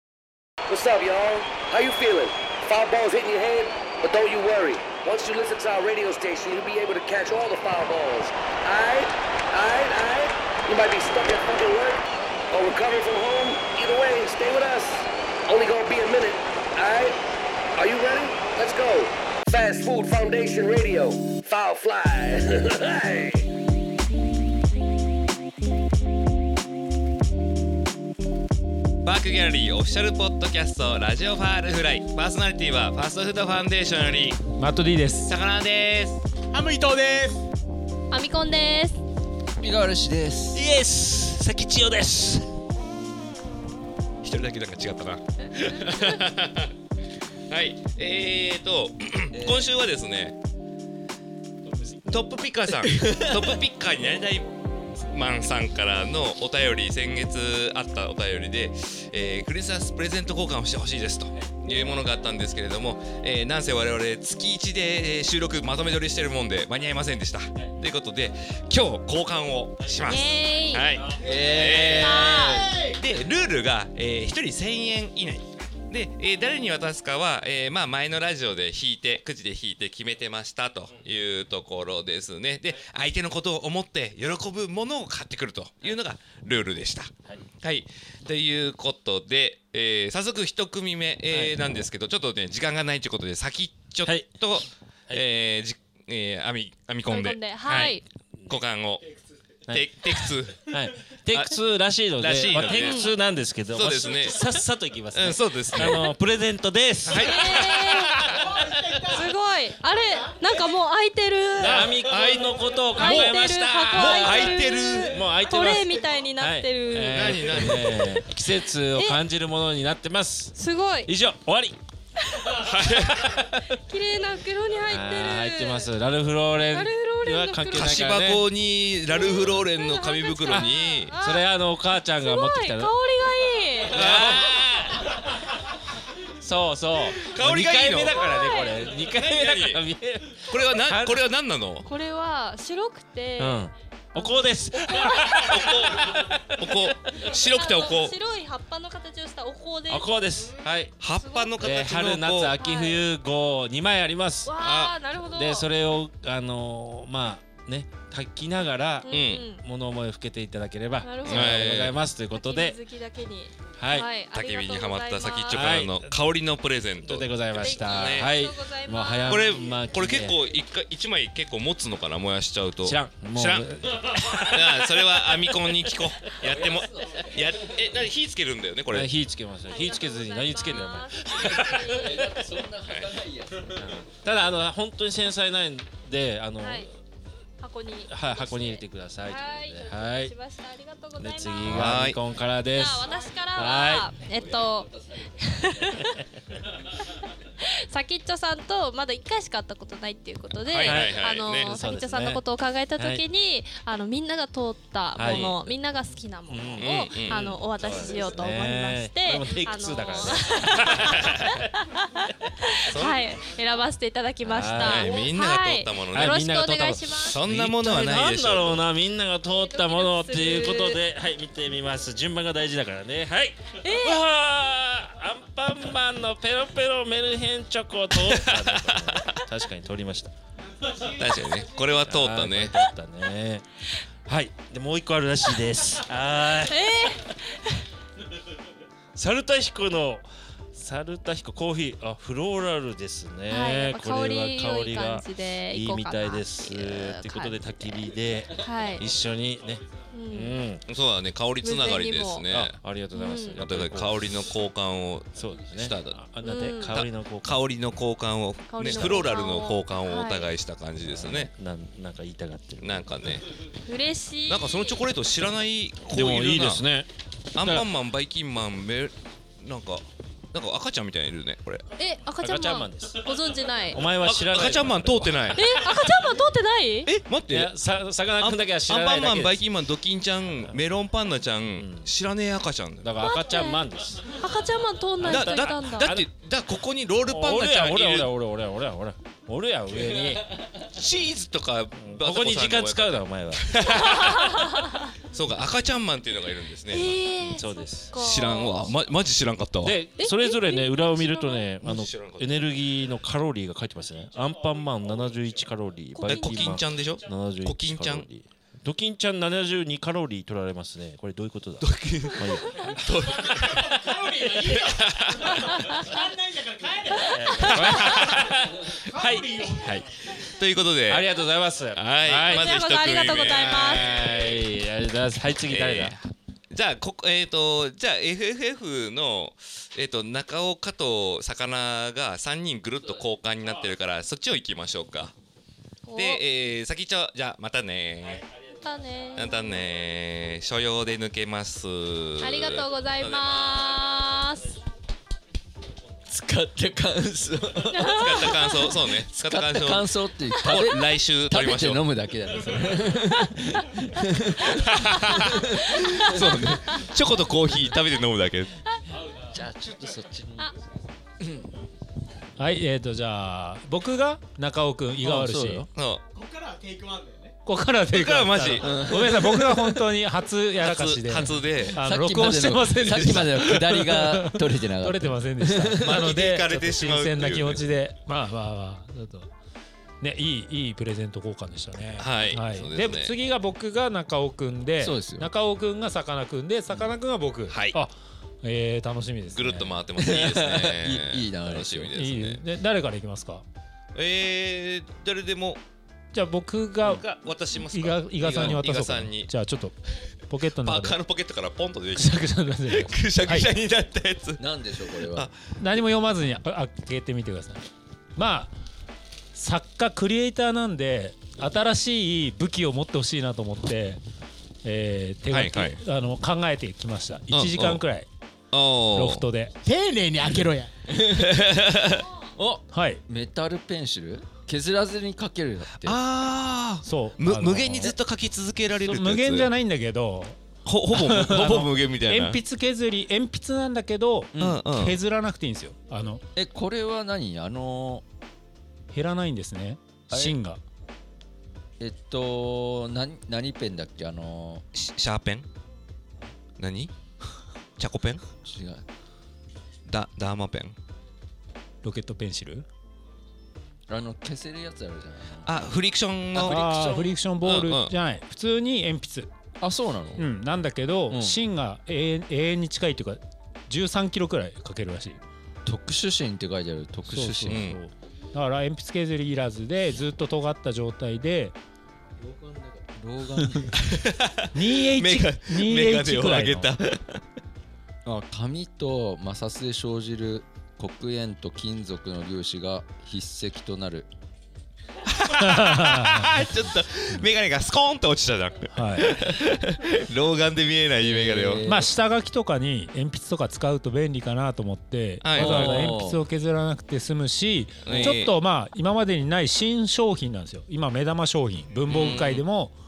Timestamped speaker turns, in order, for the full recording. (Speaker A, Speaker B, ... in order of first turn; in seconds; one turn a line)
Speaker A: 0.7-17.2
Speaker A: 17.8-23.5
Speaker B: 29.0-34.4
Speaker C: 34.6-35.3
Speaker B: 35.3-36.2
Speaker D: 36.5-37.4
Speaker E: 38.1-39.0
Speaker F: 39.6-40.6
Speaker G: 40.5-42.5
Speaker B: 44.2-46.7
Speaker B: 47.5-50.4
Speaker F: 49.3-49.7
Speaker B: 52.1-54.5
Speaker F: 52.8-53.6
Speaker B: 55.0-98.0
Speaker E: 70.0-71.1
Speaker F: 71.1-72.8
Speaker E: 71.8-72.7
Speaker D: 72.5-73.0
Speaker G: 91.3-91.6
Speaker G: 94.0-95.2
Speaker E: 97.0-98.0
Speaker B: 98.5-99.0
Speaker G: 99.7-108.4
Speaker B: 99.7-100.7
Speaker B: 102.2-103.1
Speaker E: 102.7-103.1
Speaker B: 103.7-106.1
Speaker B: 107.0-108.1
Speaker E: 107.1-108.2
Speaker D: 108.2-110.5
Speaker E: 109.1-112.0
Speaker G: 111.6-120.5
Speaker B: 111.7-115.2
Speaker E: 113.0-119.2
Speaker B: 117.1-117.9
Speaker E: 120.5-121.1
Speaker G: 121.0-121.8
Speaker E: 122.2-122.6
Speaker B: 122.6-123.4
Speaker E: 123.7-125.9
Speaker G: 124.9-128.5
Speaker E: 126.7-128.1
Speaker B: 127.7-131.1
Speaker E: 129.2-131.5
Speaker G: 129.3-129.6
Speaker G: 130.5-132.9
Speaker E: 132.2-134.1
Speaker B: 133.9-135.0
Speaker G: 133.9-134.6
Speaker G: 136.4-141.2
Speaker B: 137.2-138.3
Speaker E: 138.1-138.8
Speaker B: 139.0-139.8
Speaker B: 140.4-141.9
Speaker E: 141.8-146.2
Speaker G: 143.4-147.3
Speaker B: 145.4-148.2
Speaker E: 147.1-150.1
Speaker G: 149.9-150.9
Speaker B: 151.0-152.6
Speaker E: 151.2-151.7
Speaker G: 151.6-154.6
Speaker E: 152.5-153.1
Speaker E: 154.4-155.7
Speaker B: 154.6-154.9
Speaker G: 155.2-162.8
Speaker E: 159.0-159.6
Speaker B: 159.1-159.5
Speaker E: 161.0-161.6
Speaker B: 161.2-162.0
Speaker E: 162.3-165.8
Speaker G: 163.8-164.1
Speaker B: 164.2-168.4
Speaker G: 165.5-166.2
Speaker G: 167.0-170.4
Speaker E: 167.5-169.8
Speaker B: 169.3-179.1
Speaker G: 172.8-175.6
Speaker F: 176.4-177.4
Speaker G: 178.9-181.9
Speaker E: 179.7-182.5
Speaker F: 181.8-184.0
Speaker B: 182.9-183.2
Speaker G: 183.7-186.9
Speaker E: 186.6-186.9
Speaker E: 187.6-192.1
Speaker G: 188.1-190.3
Speaker G: 191.2-194.2
Speaker B: 191.6-192.2
Speaker E: 192.7-196.2
Speaker F: 194.6-195.6
Speaker E: 197.4-217.4
Speaker B: 200.7-201.7
Speaker G: 200.8-202.4
Speaker G: 202.9-203.2
Speaker G: 205.1-205.8
Speaker G: 206.5-211.5
Speaker B: 206.8-207.4
Speaker B: 211.1-211.5
Speaker B: 212.9-213.2
Speaker G: 214.4-215.3
Speaker B: 214.8-216.4
Speaker G: 216.1-230.3
Speaker B: 217.2-218.9
Speaker E: 219.6-221.0
Speaker E: 223.8-224.2
Speaker B: 231.0-232.8
Speaker G: 232.0-233.6
Speaker G: 234.2-237.2
Speaker E: 236.5-237.8
Speaker G: 239.1-250.8
Speaker E: 243.5-247.9
Speaker E: 248.5-249.1
Speaker E: 250.1-250.6
Speaker B: 250.9-252.8
Speaker E: 251.6-252.4
Speaker G: 252.5-254.6
Speaker E: 253.1-253.6
Speaker B: 253.6-256.3
Speaker G: 255.3-257.6
Speaker E: 256.4-257.0
Speaker B: 256.9-261.5
Speaker E: 258.7-260.5
Speaker G: 258.8-259.3
Speaker G: 261.0-263.4
Speaker B: 262.8-263.4
Speaker E: 263.8-265.1
Speaker B: 264.5-266.8
Speaker G: 266.0-267.1
Speaker B: 267.5-271.8
Speaker G: 267.6-267.9
Speaker E: 272.0-274.0
Speaker G: 272.4-273.3
Speaker G: 273.9-276.4
Speaker B: 274.2-275.8
Speaker E: 275.6-277.1
Speaker B: 277.0-277.7
Speaker G: 277.5-279.6
Speaker B: 278.4-283.1
Speaker G: 281.8-282.1
Speaker G: 283.0-284.4
Speaker E: 283.2-286.1
Speaker G: 285.2-286.3
Speaker B: 285.2-288.3
Speaker G: 287.2-290.9
Speaker B: 290.9-294.7
Speaker G: 292.0-293.8
Speaker E: 293.8-295.1
Speaker B: 295.3-297.2
Speaker E: 296.9-298.9
Speaker G: 297.4-298.2
Speaker B: 298.1-300.0
Speaker G: 299.8-313.0
Speaker E: 300.2-301.7
Speaker B: 301.8-302.7
Speaker E: 306.1-306.8
Speaker B: 306.2-308.3
Speaker B: 311.8-314.1
Speaker E: 312.6-312.9
Speaker D: 313.1-320.0
Speaker B: 314.6-316.0
Speaker G: 317.3-320.1
Speaker B: 320.4-321.4
Speaker G: 321.1-326.2
Speaker B: 321.9-324.6
Speaker E: 322.5-324.3
Speaker B: 325.6-335.3
Speaker E: 336.1-336.4
Speaker B: 336.1-338.4
Speaker E: 338.8-339.8
Speaker B: 339.3-344.1
Speaker E: 342.4-344.8
Speaker F: 346.3-348.3
Speaker E: 347.9-349.1
Speaker B: 348.1-352.0
Speaker F: 349.3-356.7
Speaker E: 350.6-350.8
Speaker B: 354.7-358.7
Speaker F: 359.4-360.7
Speaker F: 361.4-361.7
Speaker C: 362.6-365.9
Speaker F: 365.2-365.9
Speaker B: 365.9-366.2
Speaker D: 366.3-367.5
Speaker C: 367.6-379.5
Speaker B: 368.1-369.1
Speaker F: 368.8-370.0
Speaker B: 370.8-372.0
Speaker F: 371.8-376.2
Speaker B: 376.0-377.8
Speaker C: 380.2-388.1
Speaker B: 382.2-383.3
Speaker F: 385.0-385.5
Speaker B: 387.7-388.0
Speaker C: 388.6-390.0
Speaker B: 389.5-392.6
Speaker F: 390.1-392.1
Speaker C: 392.1-393.6
Speaker B: 394.1-395.8
Speaker C: 396.3-397.2
Speaker B: 397.0-399.5
Speaker C: 397.9-399.9
Speaker C: 400.5-401.2
Speaker B: 400.8-404.6
Speaker C: 402.1-403.7
Speaker F: 404.6-405.5
Speaker B: 405.3-405.6
Speaker C: 405.8-407.8
Speaker C: 408.4-408.7
Speaker C: 409.5-414.2
Speaker C: 414.8-418.3
Speaker B: 415.5-416.0
Speaker B: 417.5-418.0
Speaker B: 418.7-419.5
Speaker C: 419.1-419.7
Speaker D: 419.8-420.9
Speaker F: 421.1-421.9
Speaker B: 421.3-422.2
Speaker F: 422.6-426.2
Speaker C: 422.9-423.2
Speaker B: 426.0-429.7
Speaker C: 427.0-428.1
Speaker C: 429.0-436.4
Speaker B: 430.8-432.6
Speaker F: 434.5-434.8
Speaker B: 434.6-435.2
Speaker F: 436.6-438.2
Speaker C: 439.1-440.8
Speaker F: 440.3-440.6
Speaker F: 442.0-444.9
Speaker B: 444.9-445.6
Speaker B: 446.8-447.1
Speaker B: 448.0-448.4
Speaker F: 448.6-449.0
Speaker B: 450.1-450.9
Speaker C: 452.0-452.9
Speaker F: 454.1-455.9
Speaker B: 455.6-456.8
Speaker F: 456.5-457.3
Speaker C: 456.6-459.5
Speaker B: 457.6-458.1
Speaker F: 459.8-460.5
Speaker C: 460.4-465.4
Speaker F: 461.3-461.6
Speaker F: 465.8-467.9
Speaker C: 467.3-471.8
Speaker B: 467.7-468.0
Speaker F: 472.4-474.0
Speaker B: 474.0-477.4
Speaker C: 474.7-476.9
Speaker F: 478.2-484.3
Speaker B: 485.2-491.8
Speaker C: 485.5-486.6
Speaker C: 488.9-489.4
Speaker F: 491.2-492.1
Speaker C: 491.8-502.9
Speaker B: 495.4-496.1
Speaker F: 495.5-496.4
Speaker B: 498.0-498.5
Speaker F: 498.1-498.4
Speaker B: 502.1-502.6